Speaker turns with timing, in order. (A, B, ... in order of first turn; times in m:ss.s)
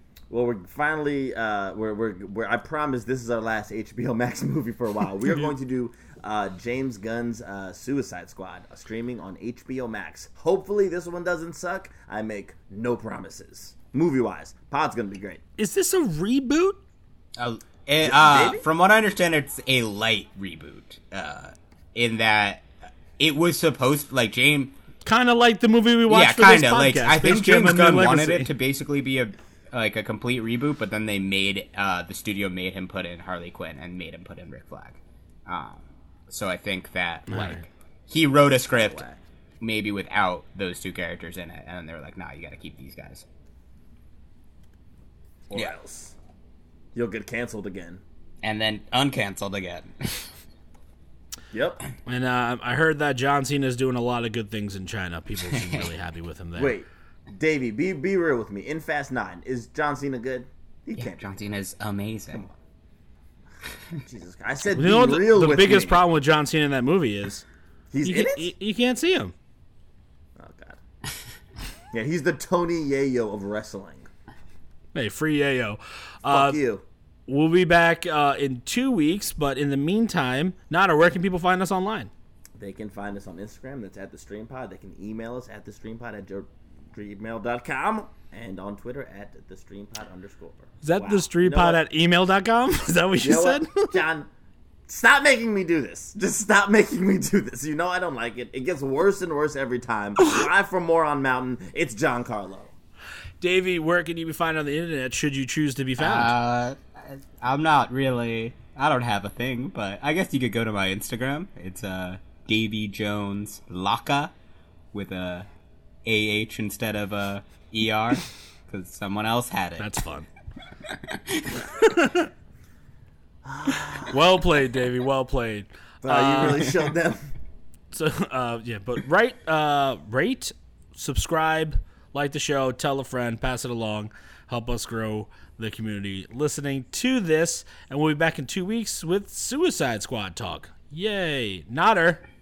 0:00.3-0:15.4 A
0:15.6-0:16.8 B
0:17.4-0:22.7 C
0:18.0-0:18.6 A
0:23.2-0:24.7 C
0:25.0-0:28.5 B
0:26.1-0:39.1 C
0:37.3-0:37.6 B
0:38.8-0:39.2 A
0:39.6-0:43.2 C
0:45.5-0:46.2 A
0:47.0-0:48.0 A
0:48.4-0:50.3 C
0:51.5-0:51.8 A
0:52.1-0:56.8 B
0:55.4-0:55.9 C
0:56.6-1:01.4 A
1:01.0-1:02.5 C
1:03.9-1:06.0 A
1:04.8-1:07.4 B
1:07.9-1:08.5 A
1:08.0-1:09.3 B
1:10.4-1:10.8 A
1:11.9-1:14.1 A
1:14.9-1:16.6 B
1:16.3-1:16.8 A
1:17.3-1:22.1 B
1:22.6-1:31.8 A
1:30.8-1:34.0 B
1:33.2-1:34.3 A
1:34.9-1:42.7 A
1:43.4-1:46.4 B
1:46.0-1:54.3 C
1:54.9-1:55.5 C
1:56.0-1:59.9 C
1:59.8-2:00.3 B
2:01.1-2:01.5 C
2:01.8-2:02.3 B
2:03.4-2:04.2 A
2:04.1-2:06.7 B
2:06.0-2:07.3 A
2:07.9-2:22.2 B